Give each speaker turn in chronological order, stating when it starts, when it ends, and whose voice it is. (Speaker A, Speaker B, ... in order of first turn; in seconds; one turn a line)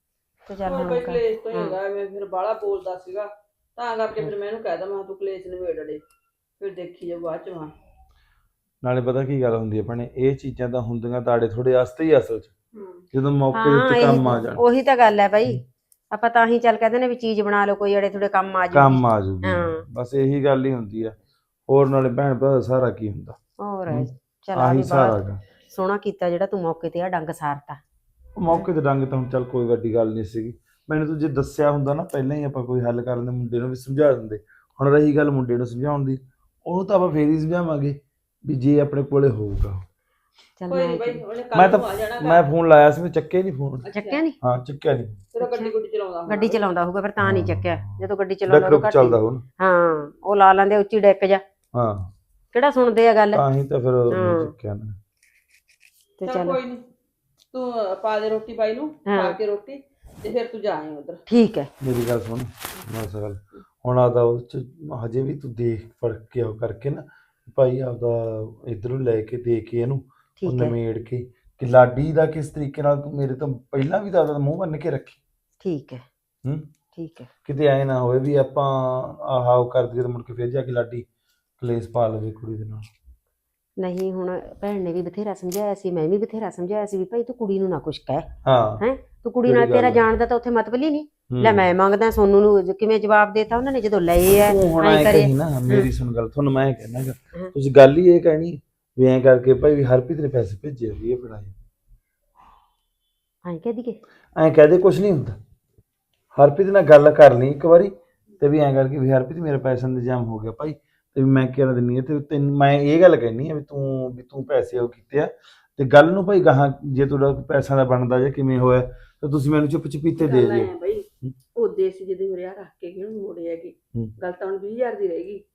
Speaker A: 0.5-1.8
Speaker B: 0.7-6.0
Speaker B: 6.6-7.7
Speaker C: 8.8-12.5
Speaker B: 12.8-13.0
Speaker C: 13.1-14.6
Speaker A: 13.5-19.9
Speaker C: 18.7-21.2
Speaker C: 21.7-23.4
Speaker A: 23.6-27.8
Speaker C: 23.9-25.4
Speaker C: 28.4-39.9
Speaker A: 40.6-41.2
Speaker B: 40.7-42.5
Speaker C: 41.5-43.9
Speaker B: 43.9-44.2
Speaker A: 43.9-44.4
Speaker C: 44.4-45.2
Speaker B: 45.3-46.6
Speaker A: 45.4-45.7
Speaker A: 46.3-51.4
Speaker C: 47.2-49.4
Speaker C: 51.7-52.1
Speaker A: 52.5-53.5
Speaker C: 53.3-55.0
Speaker A: 54.1-54.5
Speaker A: 56.2-56.6
Speaker B: 56.2-56.8
Speaker B: 57.5-61.2
Speaker A: 59.1-59.4
Speaker A: 61.3-61.7
Speaker C: 61.8-75.2
Speaker A: 70.4-70.8
Speaker A: 75.6-76.0
Speaker C: 76.4-76.7
Speaker A: 77.0-77.3
Speaker C: 77.5-81.1
Speaker C: 81.6-82.9
Speaker A: 83.8-95.9
Speaker C: 88.5-88.8
Speaker C: 89.5-90.0
Speaker C: 91.3-91.7
Speaker C: 94.4-101.6
Speaker A: 103.5-104.0
Speaker C: 104.4-105.4
Speaker C: 106.3-120.7
Speaker B: 120.2-125.4